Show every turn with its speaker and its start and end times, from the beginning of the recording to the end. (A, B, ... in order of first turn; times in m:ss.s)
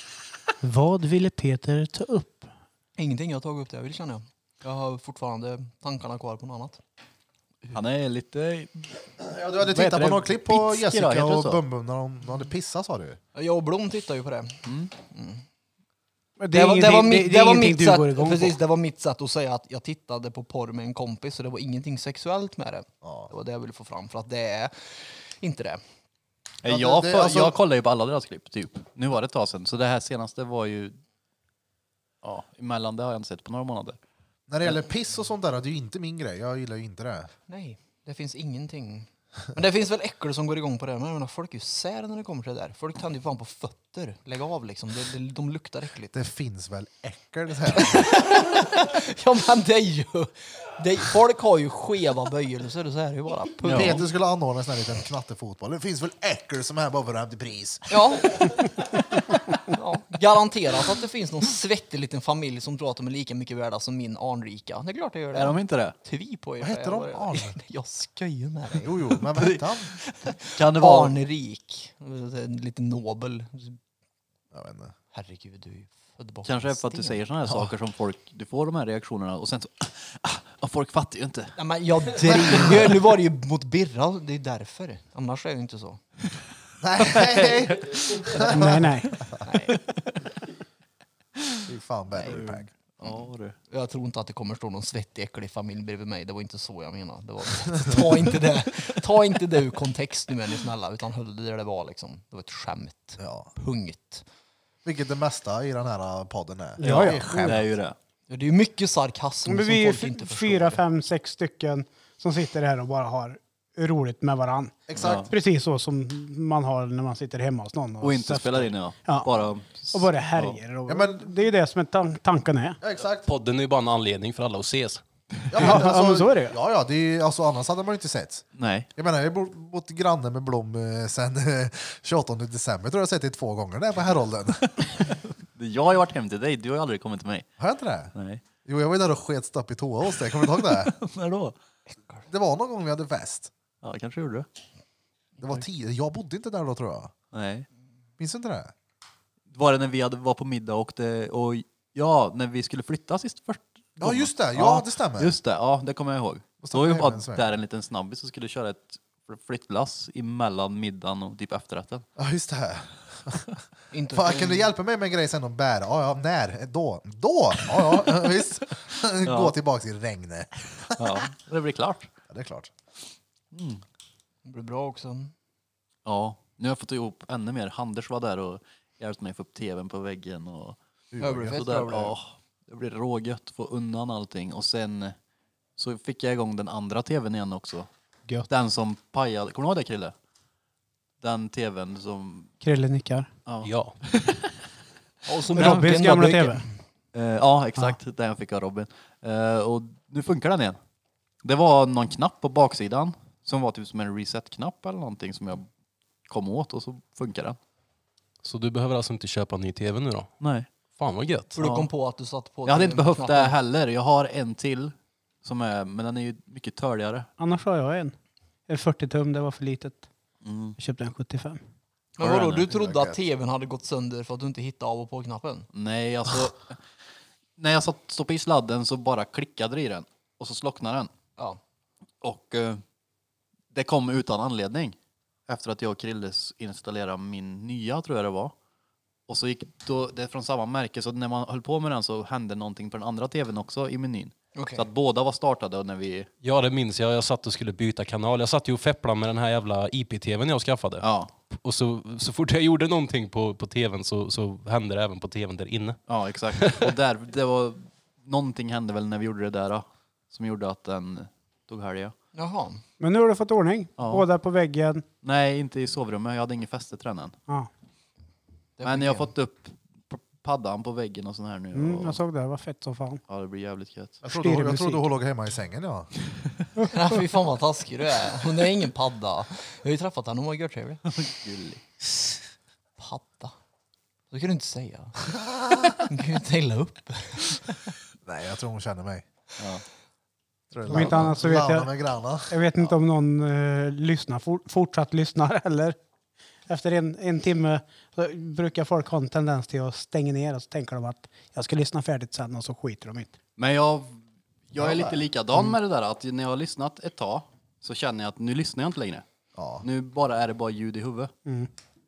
0:00.6-0:02.5 A
0:03.0-0:06.8 B
0:07.7-0:08.9 C
0:09.2-0:13.2 D
0:09.6-0:11.6 C
0:13.4-0:15.4 B
0:14.6-0:14.9 C
0:16.4-0:18.6 A
0:16.5-0:25.8 B
0:23.0-0:23.3 D
0:26.6-0:31.0 C
0:26.6-0:27.6 D
0:32.2-0:34.0 C
0:34.5-0:37.3 D
0:37.5-0:46.2 B
0:46.1-0:48.1 D
0:47.7-0:54.1 B
0:53.6-0:54.0 C
0:53.7-0:58.0 D
0:57.9-0:58.6 B
0:59.7-1:09.0 B
1:05.3-1:06.0 C
1:06.6-1:07.6 D
1:08.8-1:09.9 D
1:09.2-1:11.2 C
1:10.4-1:13.8 B
1:14.5-1:14.9 D
1:15.1-1:17.2 B
1:16.4-1:21.6 C
1:21.6-1:26.0 B
1:22.3-1:22.6 D
1:22.3-1:22.9 C
1:26.8-1:29.2 D
1:27.0-1:28.4 C
1:28.5-1:29.2 A
1:29.4-1:29.8 B
1:29.7-1:30.2 C
1:31.7-1:32.7 D
1:32.2-1:33.6 C
1:33.7-1:44.2 B
1:43.2-1:43.5 D
1:44.8-1:47.7 D
1:46.8-1:47.6 A
1:46.8-1:48.0 C
1:48.3-1:50.8 B
1:49.5-1:59.3 A
1:54.9-1:55.3 D
1:55.0-1:55.3 C
1:58.0-2:00.6 C
1:59.9-2:02.8 A
2:00.9-2:01.3 D
2:02.8-2:03.3 D
2:03.3-2:05.0 E
2:05.5-2:14.9 D
2:05.5-2:06.6 A
2:08.6-2:08.9 C
2:15.6-2:17.5 C
2:17.6-2:18.1 D
2:18.2-2:18.4 C
2:18.6-2:20.9 D
2:20.4-2:21.6 C
2:22.3-2:23.5 D
2:23.8-2:24.5 C
2:25.4-2:27.1 D
2:27.3-2:27.7 C
2:28.2-2:28.7 D
2:29.5-2:42.1 C
2:34.0-2:35.4 D
2:36.6-2:37.4 D
2:42.2-2:43.6 D
2:43.9-2:44.7 B
2:44.1-2:51.2 D
2:49.2-2:49.6 C
2:51.0-2:52.1 C
2:52.3-2:52.7 D
2:53.5-2:53.8 C
2:54.4-2:55.3 B
2:56.0-3:00.8 C
3:01.1-3:01.6 D
3:01.2-3:02.2 B
3:01.5-3:05.2 C
3:05.8-3:07.9 C
3:08.5-3:10.1 C
3:11.2-3:12.5 C
3:12.6-3:13.3 A
3:13.5-3:14.5 C
3:13.6-3:14.0 E
3:15.3-3:16.7 B
3:15.6-3:16.6 A
3:17.1-3:20.8 C
3:21.4-3:25.7 C
3:26.3-3:27.6 C
3:28.4-3:30.3 E
3:30.4-3:30.7 C
3:30.9-3:31.6 E
3:31.6-3:33.6 B
3:31.6-3:31.9 C
3:32.7-3:37.3 C
3:37.4-3:38.2 A
3:38.7-3:40.1 A
3:40.4-3:40.8 C
3:40.8-3:41.6 A
3:42.2-3:45.7 B
3:42.2-3:42.7 C
3:42.7-3:43.2 D
3:45.7-3:46.8 C
3:47.6-3:51.1 C
3:52.2-3:52.8 C
3:53.7-3:55.0 C
3:55.5-3:58.5 C
3:59.3-4:06.3 C
4:04.6-4:04.9 B
4:06.4-4:16.0 E
4:11.0-4:11.3 C
4:16.1-4:22.1 C
4:16.6-4:16.9 E
4:22.4-4:22.8 B
4:23.0-4:25.0 A
4:24.0-4:24.3 C
4:25.2-4:27.4 C
4:28.8-4:29.3 B
4:28.8-4:32.2 C
4:31.7-4:33.2 A
4:33.3-4:34.2 C
4:34.2-4:36.1 D
4:34.3-4:35.0 A
4:36.9-4:41.0 B
4:41.1-4:41.8 C
4:43.0-4:43.5 B
4:44.3-4:45.3 B
4:46.0-4:47.8 B
4:48.2-4:49.2 D
4:49.6-4:49.8 C
4:50.7-4:52.9 D
4:50.9-4:51.9 A
4:52.5-4:56.0 A
4:56.7-5:03.3 A
5:03.6-5:04.2 C
5:04.7-5:09.2 C
5:04.8-5:05.8 D
5:09.6-5:09.8 D
5:09.8-5:11.3 C